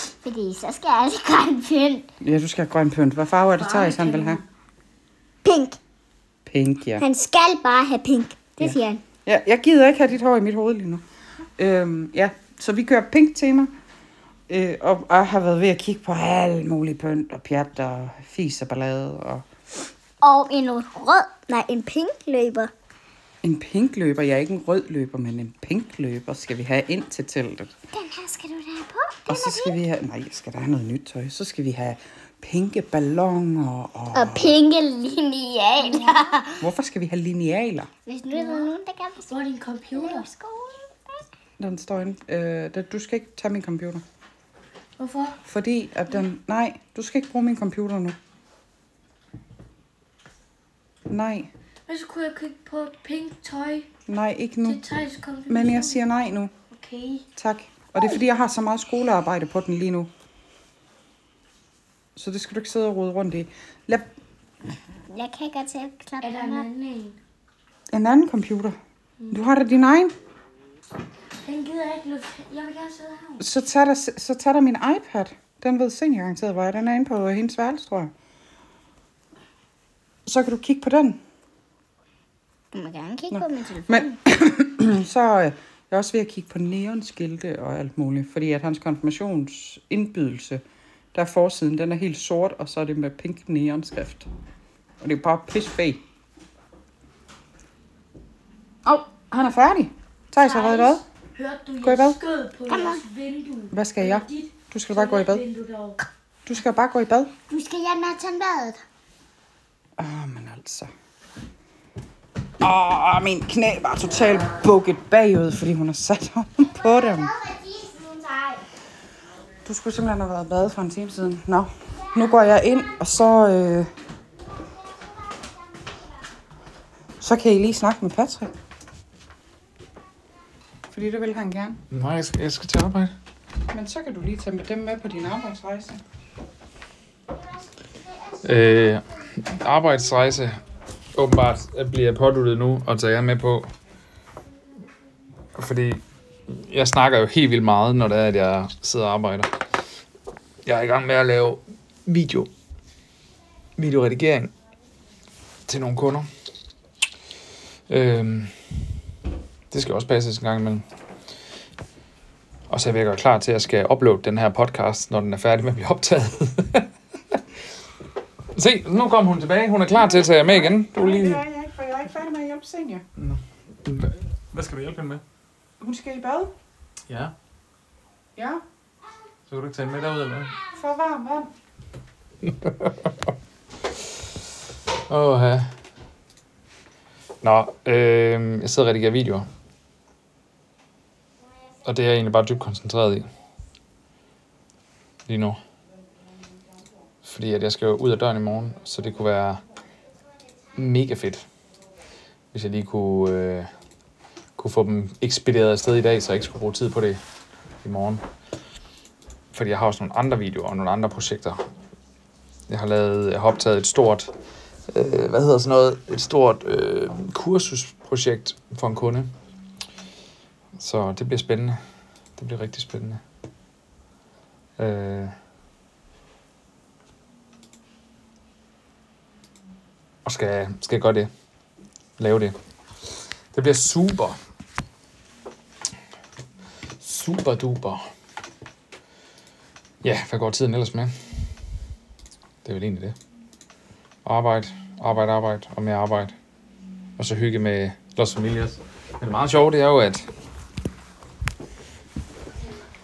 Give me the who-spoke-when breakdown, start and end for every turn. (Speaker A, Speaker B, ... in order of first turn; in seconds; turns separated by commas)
Speaker A: 0.2-2.1, Speaker B: 2.2-4.4, Speaker C: 3.6-4.4, Speaker A: 5.4-5.8, Speaker B: 6.5-7.0, Speaker A: 7.0-9.0, Speaker B: 8.6-11.0, Speaker B: 11.6-13.7, Speaker B: 14.5-19.5, Speaker A: 20.2-22.7, Speaker B: 23.4-27.7, Speaker A: 27.9-29.8, Speaker B: 29.3-34.5, Speaker A: 34.1-36.6, Speaker C: 35.8-36.4, Speaker B: 36.6-37.9, Speaker A: 38.1-41.2, Speaker C: 38.3-38.7, Speaker C: 39.3-40.3, Speaker B: 41.6-44.0, Speaker C: 45.0-45.4, Speaker B: 45.4-48.2, Speaker B: 51.1-51.5, Speaker C: 51.9-53.9, Speaker B: 54.1-54.8, Speaker C: 54.6-56.0, Speaker B: 55.5-56.5, Speaker C: 56.7-57.2, Speaker B: 57.4-60.1, Speaker B: 62.2-64.1, Speaker A: 65.1-66.7, Speaker C: 66.2-67.2, Speaker B: 67.9-68.8, Speaker C: 69.2-69.5, Speaker B: 69.3-70.2, Speaker C: 71.4-73.5, Speaker B: 73.4-78.1, Speaker B: 80.3-81.2, Speaker A: 82.7-84.2, Speaker B: 83.3-90.6, Speaker B: 91.1-94.3, Speaker B: 95.0-96.0, Speaker B: 98.8-101.0, Speaker C: 100.4-106.0, Speaker B: 101.8-102.2, Speaker A: 102.7-103.0, Speaker B: 103.7-105.4, Speaker B: 106.5-107.3, Speaker A: 107.5-108.8, Speaker B: 110.0-110.9, Speaker B: 112.6-117.3, Speaker A: 116.6-118.6, Speaker B: 119.6-123.9, Speaker A: 121.9-122.9, Speaker A: 124.6-126.2, Speaker B: 127.2-128.5, Speaker B: 130.9-131.8, Speaker D: 131.9-133.1, Speaker B: 133.7-136.0, Speaker A: 137.3-139.3, Speaker D: 138.4-140.6, Speaker D: 141.1-143.7, Speaker D: 145.6-149.6, Speaker D: 150.7-152.5, Speaker D: 153.8-154.5, Speaker D: 155.7-156.3, Speaker D: 157.9-158.6, Speaker D: 159.7-160.8, Speaker D: 162.7-166.9, Speaker D: 168.5-171.4, Speaker B: 169.9-173.1, Speaker D: 173.2-175.2, Speaker B: 175.8-176.5, Speaker D: 177.1-177.3, Speaker B: 178.4-178.6, Speaker D: 179.5-180.6, Speaker B: 180.7-181.5, Speaker D: 182.4-182.9, Speaker D: 185.1-185.7, Speaker D: 187.4-189.5, Speaker D: 191.8-193.3, Speaker D: 195.3-195.6, Speaker D: 197.2-199.6, Speaker D: 200.8-201.4, Speaker D: 202.5-203.7, Speaker D: 204.6-207.2, Speaker D: 207.8-208.2, Speaker D: 209.5-211.6, Speaker D: 212.7-214.3, Speaker D: 214.9-219.3, Speaker D: 220.8-221.8, Speaker D: 222.4-223.2, Speaker D: 224.8-225.3, Speaker D: 230.2-231.3, Speaker D: 232.2-232.6, Speaker D: 233.5-234.4, Speaker D: 237.0-238.1, Speaker D: 240.0-241.1, Speaker D: 242.6-243.2, Speaker D: 244.2-246.3, Speaker D: 247.2-250.3